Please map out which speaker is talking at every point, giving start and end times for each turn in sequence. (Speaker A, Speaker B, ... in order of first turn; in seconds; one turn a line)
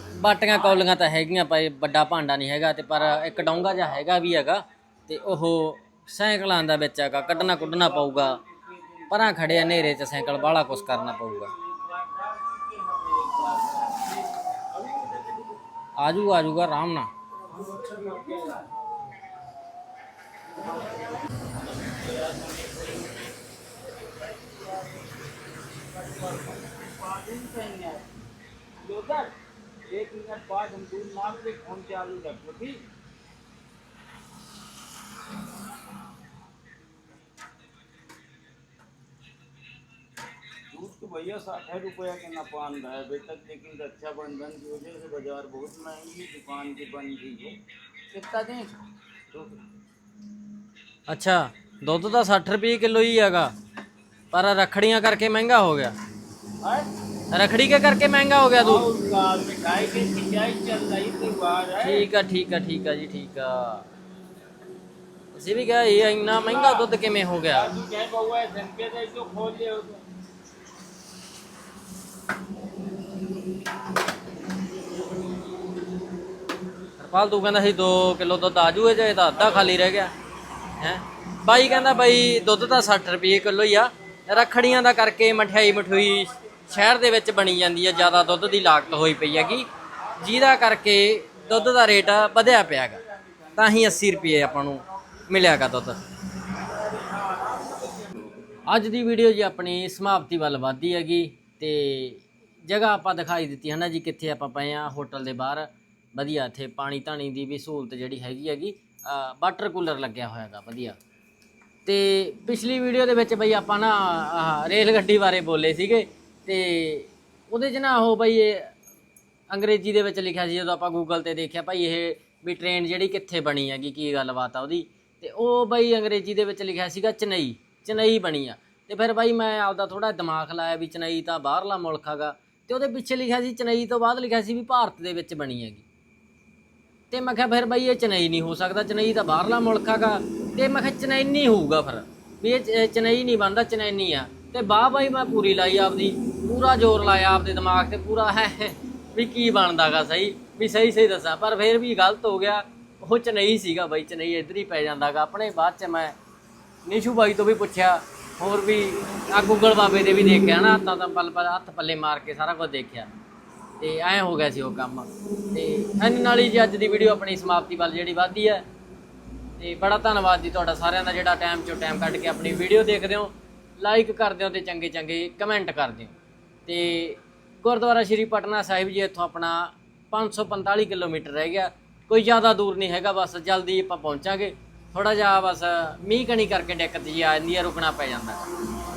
Speaker A: 0.2-8.4
Speaker A: 9.1-11.5
Speaker B: 12.9-14.0
Speaker B: 14.7-15.2
Speaker A: 16.0-17.1
Speaker B: 17.5-18.6
Speaker B: 20.6-21.1
Speaker B: 21.8-23.1
Speaker B: 24.2-24.8
Speaker B: 26.0-28.1
Speaker B: 28.8-29.4
Speaker B: 29.9-32.8
Speaker B: 40.7-47.5
Speaker B: 48.1-48.8
Speaker B: 49.3-49.6
Speaker A: 51.1-53.5
Speaker A: 54.3-56.0
Speaker A: 57.3-58.9
Speaker B: 58.6-62.1
Speaker A: 61.8-63.9
Speaker A: 65.3-67.7
Speaker B: 66.4-66.9
Speaker B: 67.5-70.0
Speaker A: 77.0-80.1
Speaker A: 80.8-93.0
Speaker A: 93.6-96.0
Speaker B: 96.7-98.2
Speaker A: 98.7-111.0
Speaker A: 111.9-118.7
Speaker A: 119.5-135.8
Speaker A: 137.1-156.2
Speaker A: 156.9-163.1
Speaker A: 163.8-168.7
Speaker A: 169.6-176.1
Speaker A: 176.7-188.5